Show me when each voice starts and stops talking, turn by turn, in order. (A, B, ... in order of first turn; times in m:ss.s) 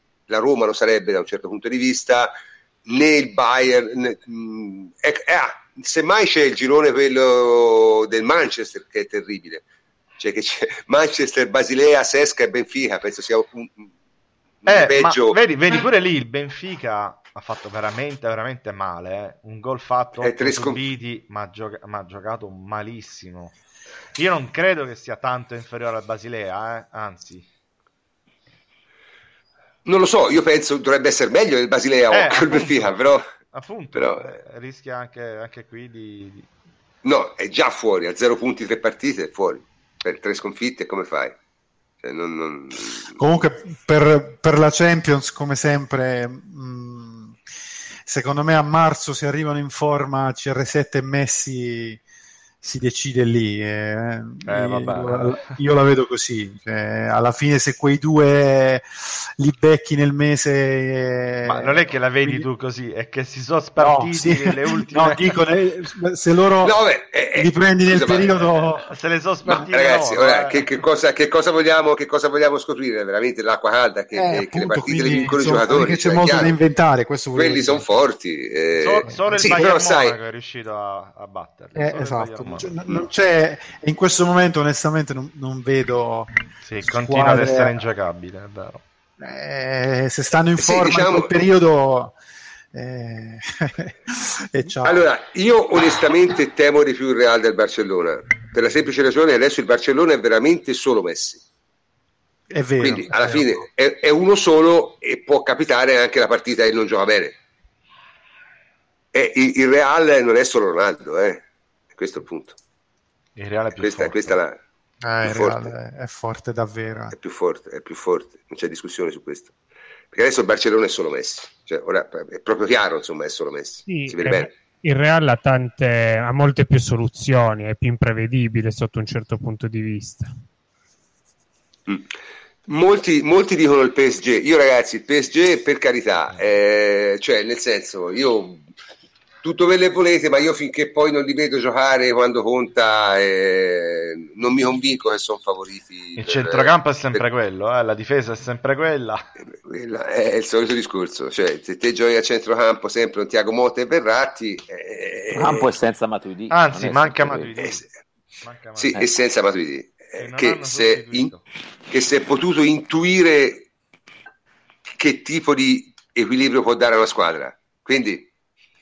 0:00.3-0:02.3 A
0:02.8-0:09.6 A
0:10.2-0:13.9 A
0:14.6-0:15.4 A
0:14.7-0:23.6 B
0:20.2-0:20.8 A
0:24.2-0:27.4 B
0:29.8-0:33.3 A
0:32.1-0:36.5 B
0:33.9-0:34.3 A
0:37.0-0:41.3 A
0:42.0-0:43.2 A
0:43.2-0:47.4 C
0:48.0-0:52.0 C
0:52.6-1:02.4 C
0:54.4-0:55.6 B
1:01.4-1:05.4 B
1:03.8-1:06.8 C
1:06.6-1:08.4 A
1:07.3-1:08.8 C
1:08.8-1:10.7 B
1:09.4-1:16.6 A
1:14.1-1:17.8 C
1:17.3-1:20.2 A
1:18.8-1:22.8 B
1:21.8-1:26.3 C
1:26.6-1:28.8 B
1:26.8-1:27.8 C
1:29.2-1:32.2 C
1:30.6-1:31.4 A
1:32.7-1:35.0 C
1:34.8-1:41.4 A
1:42.5-1:43.6 C
1:42.8-1:47.4 A
1:49.1-1:51.4 A
1:51.9-1:52.6 A
1:53.4-1:54.3 B
1:53.8-1:54.6 A
1:55.0-1:57.1 C
1:55.2-1:55.7 A
1:57.1-1:59.5 A
2:00.1-2:04.5 A
2:03.9-2:10.3 D
2:11.9-2:12.1 A
2:12.7-2:18.6 A
2:19.4-2:27.2 A
2:26.2-2:29.2 B
2:29.4-2:35.7 A
2:35.3-2:37.5 E
2:36.5-2:37.9 B
2:38.4-2:39.0 B
2:38.8-2:41.3 A
2:40.2-2:41.4 B
2:41.9-2:43.6 A
2:45.0-2:48.3 A